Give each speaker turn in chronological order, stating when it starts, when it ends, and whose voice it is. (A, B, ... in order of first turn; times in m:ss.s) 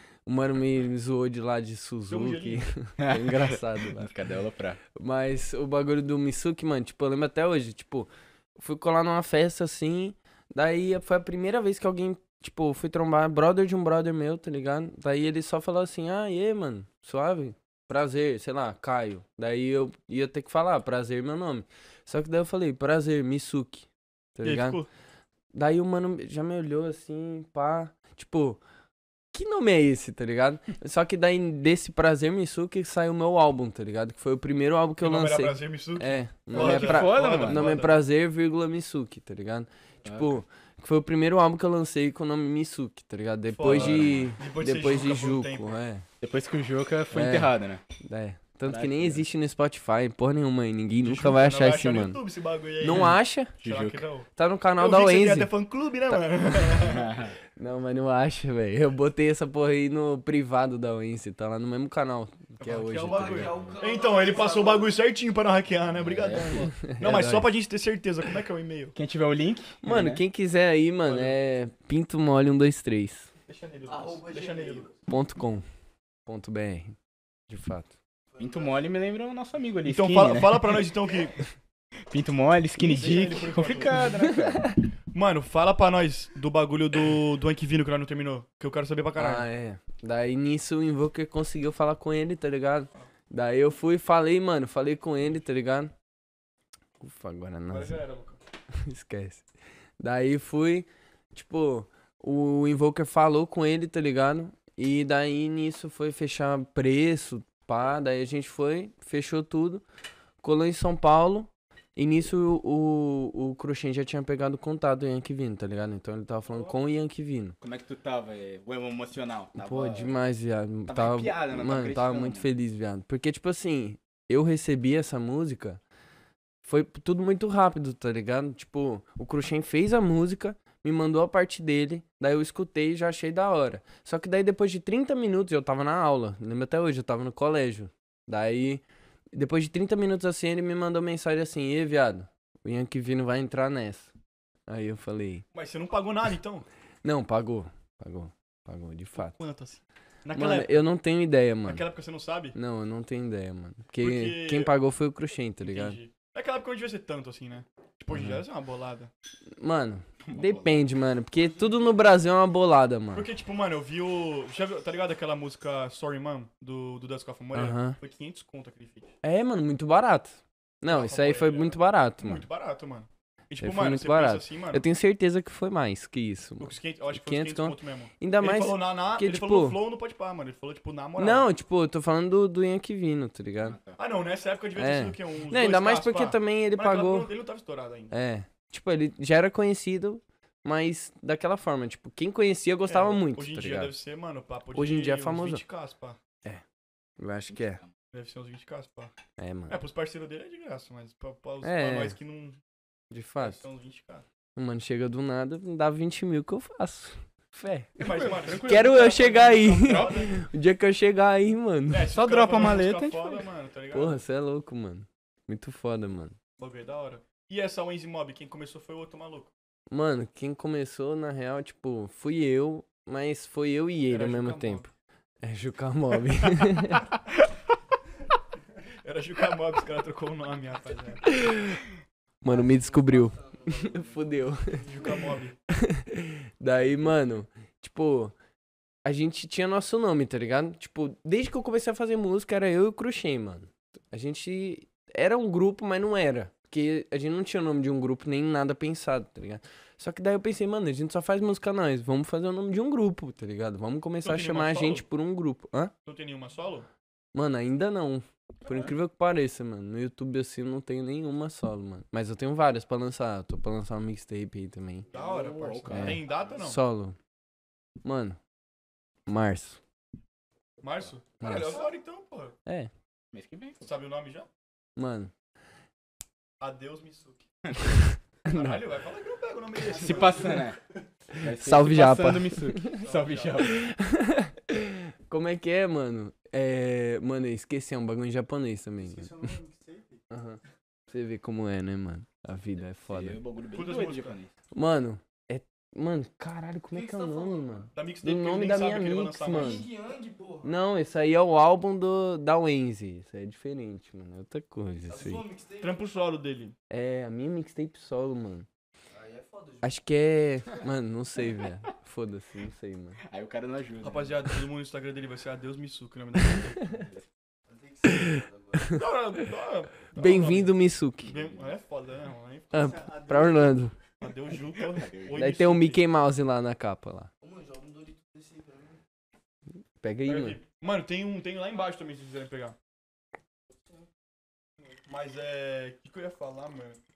0:00.2-0:04.1 A
0:02.1-0:02.6 B
0:03.0-0:04.8 C
0:05.0-0:24.8 A
0:24.4-0:24.9 B
0:25.5-0:28.6 A
0:29.3-0:46.0 A
0:35.0-0:38.0 B
0:36.5-0:37.7 C
0:40.0-0:40.4 C
0:43.5-0:45.7 B
0:43.6-0:44.3 C
0:46.2-0:47.8 C
0:47.1-0:52.2 A
0:48.7-0:49.2 C
0:51.0-0:57.1 B
0:52.8-0:53.5 A
0:52.9-0:54.0 C
0:54.4-0:55.5 A
0:56.1-0:56.7 A
0:56.8-0:57.3 C
0:57.6-1:03.6 A
1:02.6-1:08.9 B
1:03.0-1:05.0 D
1:06.0-1:06.7 C
1:06.4-1:07.5 A
1:08.9-1:10.2 C
1:09.8-1:13.3 A
1:11.0-1:11.4 B
1:13.5-1:14.9 B
1:13.8-1:14.9 D
1:15.1-1:15.6 A
1:16.2-1:17.0 A
1:17.5-1:17.9 A
1:18.3-1:18.9 D
1:18.4-1:20.8 C
1:19.8-1:21.4 B
1:22.1-1:24.7 C
1:22.8-1:24.1 B
1:25.1-1:29.4 B
1:29.2-1:35.9 A
1:37.0-1:38.0 A
1:37.7-1:38.4 B
1:38.8-1:39.5 A
1:40.0-1:49.8 A
1:50.4-1:57.6 A
1:57.6-2:00.2 C
1:59.6-2:05.8 A
2:00.9-2:02.5 C
2:06.6-2:18.8 A
2:19.3-2:24.1 A
2:24.7-2:25.4 A
2:25.5-2:26.6 B
2:27.0-2:29.3 A
2:29.2-2:30.8 B
2:30.3-2:31.8 A
2:31.6-2:32.5 B
2:32.5-2:36.0 A
2:34.0-2:34.7 B
2:35.6-2:39.1 B
2:38.1-2:38.4 A
2:39.6-2:43.3 A
2:40.2-2:40.9 C
2:43.1-2:49.1 B
2:47.5-2:48.0 A
2:49.2-2:52.4 A
2:50.8-2:54.8 B
2:53.6-2:59.8 A
2:56.6-3:01.5 B
3:01.2-3:03.8 A
3:03.6-3:04.0 C
3:04.0-3:08.1 B
3:04.8-3:07.3 A
3:08.1-3:13.9 A
3:12.9-3:16.2 B
3:14.7-3:15.6 A
3:17.2-3:17.8 A
3:17.5-3:17.8 C
3:18.1-3:19.1 B
3:19.4-3:19.8 A
3:19.7-3:22.6 B
3:21.6-3:22.1 A
3:23.1-3:23.6 A
3:23.4-3:24.2 B
3:24.6-3:28.0 A
3:28.0-3:30.4 B
3:28.0-3:30.2 C
3:28.6-3:32.1 A
3:31.9-3:34.2 B
3:32.1-3:33.4 C
3:33.9-3:36.3 A
3:36.6-3:39.5 B
3:39.9-3:44.8 A
3:44.1-3:44.9 B
3:45.4-3:47.1 A
3:49.0-3:51.3 B
3:51.3-3:51.8 A
3:52.4-3:54.8 A
3:52.5-3:54.8 D
3:54.8-3:55.5 B
3:55.7-3:58.3 A
3:59.0-4:15.9 A
4:14.2-4:15.0 B
4:16.0-4:16.9 B
4:17.3-4:25.1 A
4:18.6-4:18.9 C
4:25.1-4:26.8 B
4:25.1-4:26.3 C
4:25.9-4:27.2 A
4:28.0-4:28.4 A
4:29.3-4:29.8 A
4:30.8-4:32.6 B
4:31.4-4:31.8 A
4:32.6-4:32.9 A
4:33.3-4:33.8 C
4:33.8-4:34.5 B
4:35.0-4:35.3 A
4:36.6-4:37.4 B
4:37.6-4:38.0 C
4:38.5-4:40.7 B
4:39.8-4:40.8 C
4:39.9-4:40.7 E
4:41.4-4:42.8 A
4:41.4-4:43.8 C
4:43.0-4:43.8 B
4:43.6-4:49.5 A
4:49.0-4:50.2 E
4:50.3-4:50.6 A
4:51.1-4:53.4 A
4:53.1-4:54.5 C
4:53.7-4:54.3 B
4:54.7-4:59.8 A
4:56.9-4:57.9 D
4:57.9-4:59.8 B
4:59.5-5:00.7 D
5:00.6-5:05.4 A
5:05.1-5:06.0 D
5:05.8-5:06.7 B
5:06.9-5:08.7 A
5:09.1-5:10.0 D
5:09.8-5:13.2 A
5:13.3-5:14.4 C
5:14.0-5:16.9 B
5:16.9-5:17.2 C
5:17.7-5:19.0 D
5:18.1-5:18.4 A
5:18.9-5:22.8 B
5:20.2-5:21.3 A
5:21.2-5:21.6 C
5:22.7-5:23.9 A
5:22.7-5:23.8 E
5:24.2-5:26.0 B
5:24.9-5:25.3 C
5:25.3-5:27.3 A
5:27.4-5:29.0 D
5:30.0-5:30.6 A
5:30.2-5:32.8 B
5:35.0-5:37.0 B